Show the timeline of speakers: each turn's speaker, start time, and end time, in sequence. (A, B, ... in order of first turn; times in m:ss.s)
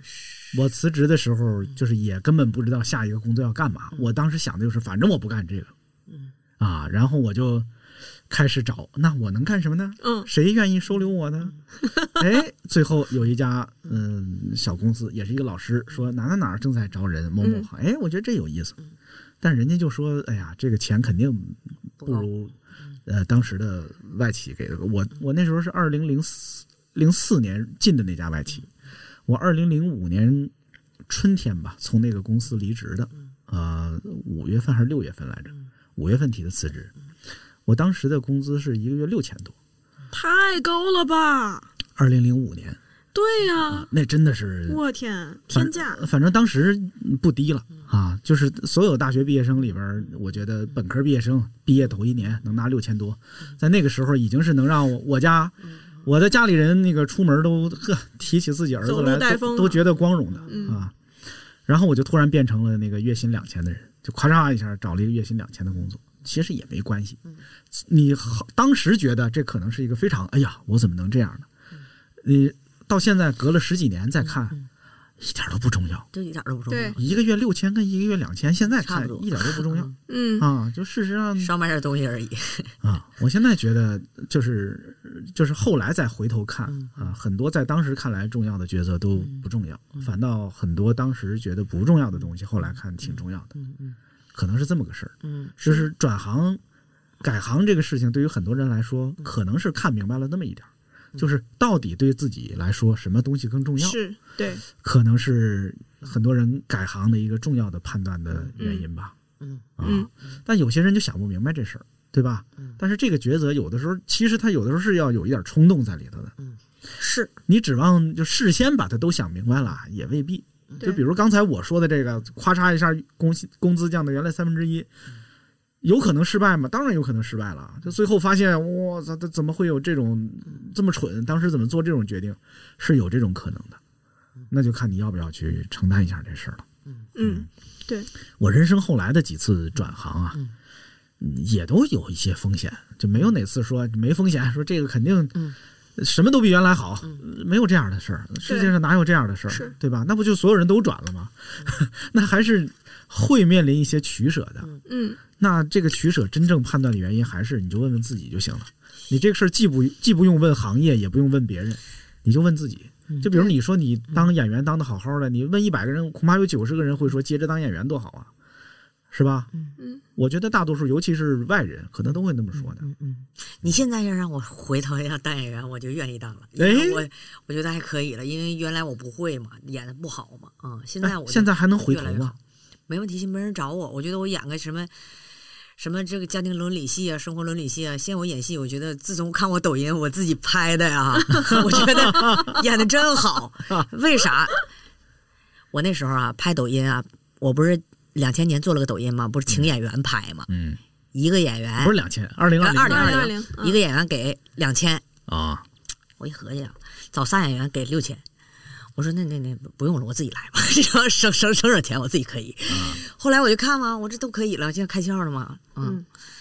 0:00.5-0:05.7 A
0:06.6-0:07.7 A
0:08.3-0:11.6 A
0:10.0-0:10.3 B
0:12.1-0:18.8 A
0:17.4-0:17.7 B
0:19.4-0:22.5 A
0:22.0-0:22.3 C
0:23.0-0:28.7 A
0:29.3-0:30.5 A
0:31.1-0:36.9 A
0:37.6-0:39.5 A
0:40.1-0:41.7 B
0:42.0-0:42.8 A
0:43.1-0:43.9 B
0:43.6-0:44.8 A
0:44.7-0:46.0 B
0:45.5-1:00.9 A
0:58.8-0:59.8 B
1:00.5-1:00.8 B
1:01.7-1:07.2 A
1:07.8-1:11.5 A
1:12.2-1:14.6 A
1:15.2-1:16.1 A
1:16.1-1:17.1 C
1:16.7-1:17.0 B
1:17.0-1:21.5 A
1:18.8-1:19.9 C
1:20.1-1:20.5 B
1:21.4-1:22.7 C
1:22.8-1:33.5 A
1:26.7-1:27.1 C
1:29.2-1:29.4 C
1:33.0-1:34.0 C
1:34.3-1:36.6 A
1:35.2-1:35.6 C
1:37.2-1:44.0 A
1:43.8-1:44.6 B
1:44.7-1:49.1 A
1:48.6-1:48.8 B
1:49.4-1:49.6 C
1:49.8-1:56.3 A
1:49.8-1:50.1 B
1:57.0-1:57.3 B
1:57.5-2:04.9 A
2:05.8-2:13.8 A
2:14.5-2:16.6 A
2:17.2-2:18.1 B
2:17.2-2:17.5 A
2:18.4-2:20.4 A
2:21.2-2:25.4 A
2:26.0-2:34.7 A
2:28.4-2:28.7 B
2:29.5-2:29.7 B
2:34.8-2:35.2 B
2:35.4-2:48.3 A
2:49.1-2:49.5 A
2:50.2-2:52.9 A
2:52.6-3:04.9 C
2:56.6-2:57.0 A
3:01.0-3:02.4 A
3:05.8-3:14.6 C
3:11.5-3:12.6 A
3:15.7-3:20.5 C
3:20.5-3:20.8 A
3:21.1-3:22.0 C
3:21.8-3:23.3 A
3:22.6-3:25.0 C
3:22.8-3:23.8 B
3:25.3-3:25.6 A
3:26.2-3:28.2 C
3:29.0-3:36.0 C
3:32.7-3:33.0 A